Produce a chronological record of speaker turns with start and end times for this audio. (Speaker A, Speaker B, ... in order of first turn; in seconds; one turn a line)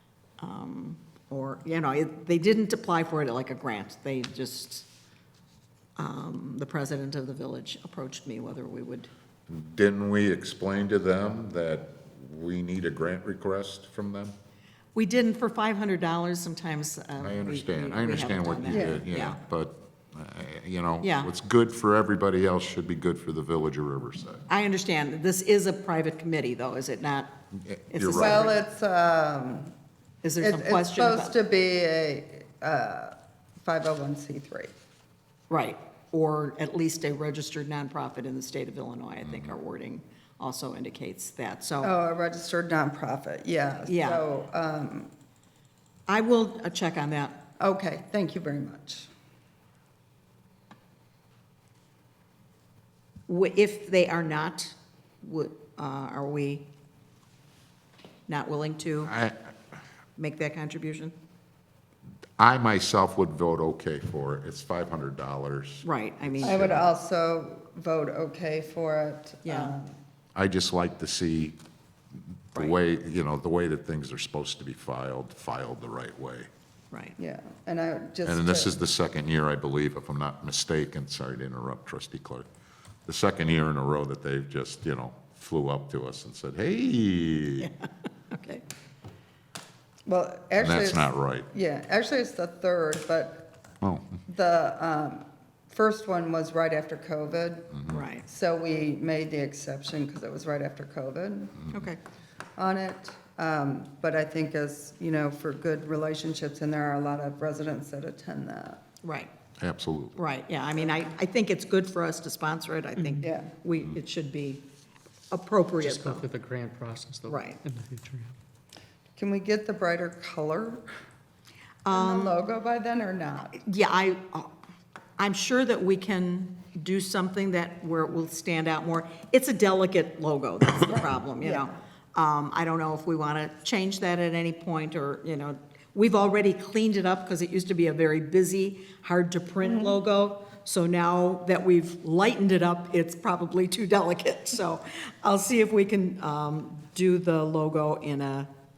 Speaker A: 0.4-4.9
Speaker A: 6.0-9.1
Speaker B: 9.5-14.3
Speaker A: 14.9-19.4
Speaker B: 17.2-24.4
Speaker C: 18.6-19.0
Speaker A: 21.0-21.3
Speaker A: 24.5-27.3
Speaker B: 27.6-28.5
Speaker A: 27.9-28.6
Speaker C: 28.1-29.7
Speaker A: 30.2-31.4
Speaker C: 30.4-34.7
Speaker A: 35.5-41.9
Speaker B: 39.2-39.5
Speaker C: 41.8-45.1
Speaker A: 43.9-44.2
Speaker A: 46.1-47.4
Speaker C: 47.6-49.1
Speaker A: 53.3-56.7
Speaker A: 58.3-59.1
Speaker B: 59.0-59.4
Speaker A: 60.2-61.1
Speaker B: 62.4-66.8
Speaker A: 65.8-66.7
Speaker C: 66.4-69.9
Speaker A: 69.4-69.7
Speaker B: 70.3-71.5
Speaker B: 72.3-76.5
Speaker A: 76.9-77.2
Speaker C: 77.2-78.7
Speaker B: 78.2-82.5
Speaker B: 83.0-87.7
Speaker A: 87.6-88.6
Speaker C: 90.0-93.5
Speaker B: 90.6-91.5
Speaker B: 93.8-94.2
Speaker C: 94.3-101.7
Speaker A: 97.9-98.2
Speaker A: 101.7-102.0
Speaker C: 102.6-108.8
Speaker A: 109.0-109.3
Speaker B: 109.6-110.2
Speaker A: 110.1-114.6
Speaker C: 113.2-113.5
Speaker A: 115.3-116.3
Speaker D: 115.8-118.3
Speaker A: 117.3-117.6
Speaker C: 119.2-120.8
Speaker A: 121.8-122.4
Speaker C: 121.9-123.6
Speaker A: 123.6-124.5
Speaker A: 125.2-148.5
Speaker C: 130.9-131.7
Speaker C: 139.6-140.0